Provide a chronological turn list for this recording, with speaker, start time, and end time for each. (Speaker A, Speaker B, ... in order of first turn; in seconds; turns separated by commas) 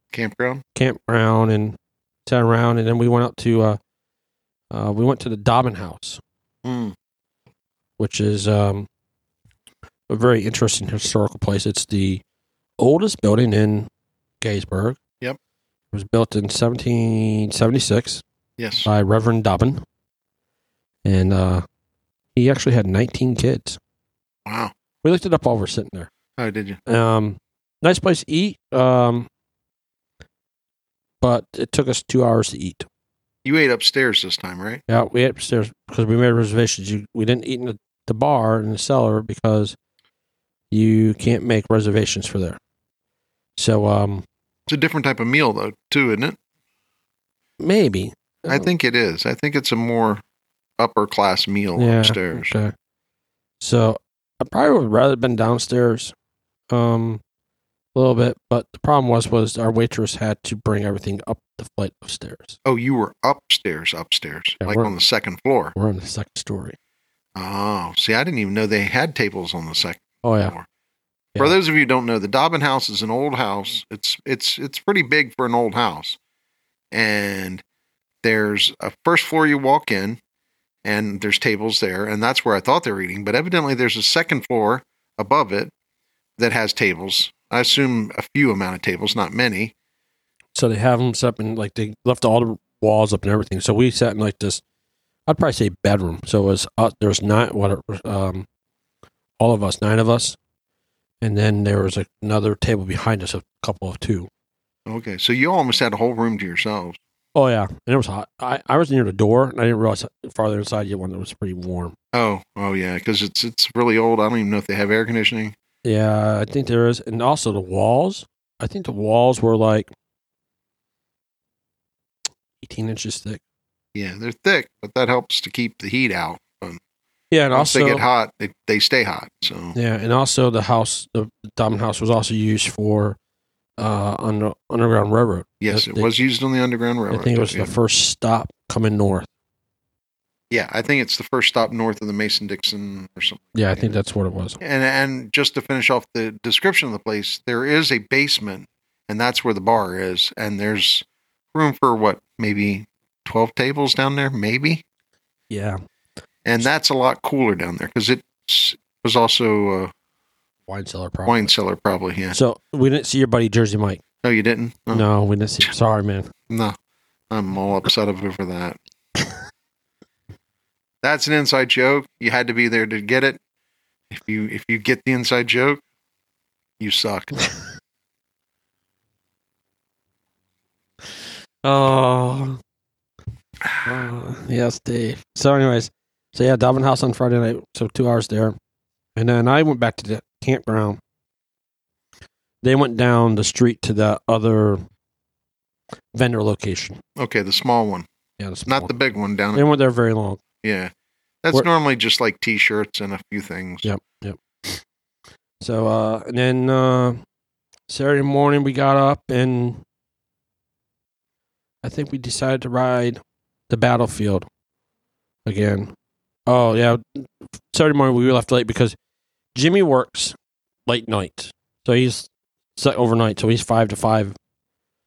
Speaker A: 0.1-0.6, Speaker B: 0.7-3.8, Speaker B: 4.7-6.2, Speaker A: 6.6-6.9, Speaker B: 8.0-8.9, Speaker B: 10.1-12.2, Speaker B: 12.8-13.9, Speaker B: 14.4-15.0, Speaker B: 15.9-18.2, Speaker A: 18.6-18.9, Speaker B: 18.8-19.8, Speaker B: 21.0-21.6, Speaker B: 22.4-23.8, Speaker A: 24.4-24.7, Speaker B: 25.0-26.1, Speaker A: 26.4-26.8, Speaker B: 26.9-29.3, Speaker B: 31.2-32.9, Speaker A: 33.4-34.8, Speaker B: 34.9-39.8, Speaker B: 40.7-42.6, Speaker B: 43.6-44.2, Speaker A: 44.7-46.4, Speaker B: 47.6-48.7, Speaker A: 48.5-50.2, Speaker A: 50.8-52.5, Speaker B: 51.8-52.7, Speaker B: 53.6-56.1, Speaker B: 56.7-57.2, Speaker B: 57.9-62.6, Speaker A: 62.6-65.7, Speaker B: 64.6-64.9, Speaker B: 65.8-66.8, Speaker A: 67.3-70.7, Speaker B: 70.2-70.5, Speaker A: 71.4-76.2, Speaker A: 76.9-77.6, Speaker A: 78.2-80.2, Speaker A: 80.8-85.7, Speaker A: 86.4-89.7, Speaker B: 90.5-94.6, Speaker B: 95.3-98.5, Speaker B: 99.4-100.4, Speaker B: 101.2-104.3, Speaker A: 104.9-107.0, Speaker B: 107.3-111.9, Speaker A: 112.1-115.5, Speaker B: 115.8-119.9, Speaker B: 122.6-123.4, Speaker A: 123.9-126.8, Speaker B: 127.3-128.0, Speaker A: 127.5-129.8, Speaker B: 129.7-133.2, Speaker B: 133.8-136.1, Speaker A: 135.6-137.7, Speaker B: 137.1-139.3, Speaker A: 140.5-143.8, Speaker B: 143.5-144.6, Speaker A: 144.6-154.8, Speaker B: 155.5-155.8, Speaker A: 156.4-159.9, Speaker B: 160.7-161.5, Speaker A: 161.3-162.3, Speaker B: 162.3-164.0, Speaker A: 164.2-165.1, Speaker B: 164.9-166.3, Speaker A: 166.5-166.8, Speaker A: 167.3-168.8, Speaker A: 171.0-173.4, Speaker A: 174.1-175.8, Speaker A: 176.8-177.3, Speaker B: 181.6-182.6, Speaker A: 183.6-184.0, Speaker B: 183.8-188.6, Speaker B: 189.2-191.0, Speaker B: 192.6-194.8, Speaker B: 196.1-197.0, Speaker A: 197.2-198.1, Speaker B: 198.4-198.9, Speaker A: 198.7-199.7, Speaker B: 199.5-200.4, Speaker A: 200.6-200.9, Speaker A: 201.4-203.9, Speaker B: 203.8-204.8, Speaker B: 205.6-207.2, Speaker B: 207.9-209.8, Speaker B: 211.8-214.5, Speaker B: 215.4-215.9, Speaker B: 216.5-218.9, Speaker B: 219.5-220.3, Speaker B: 220.9-224.3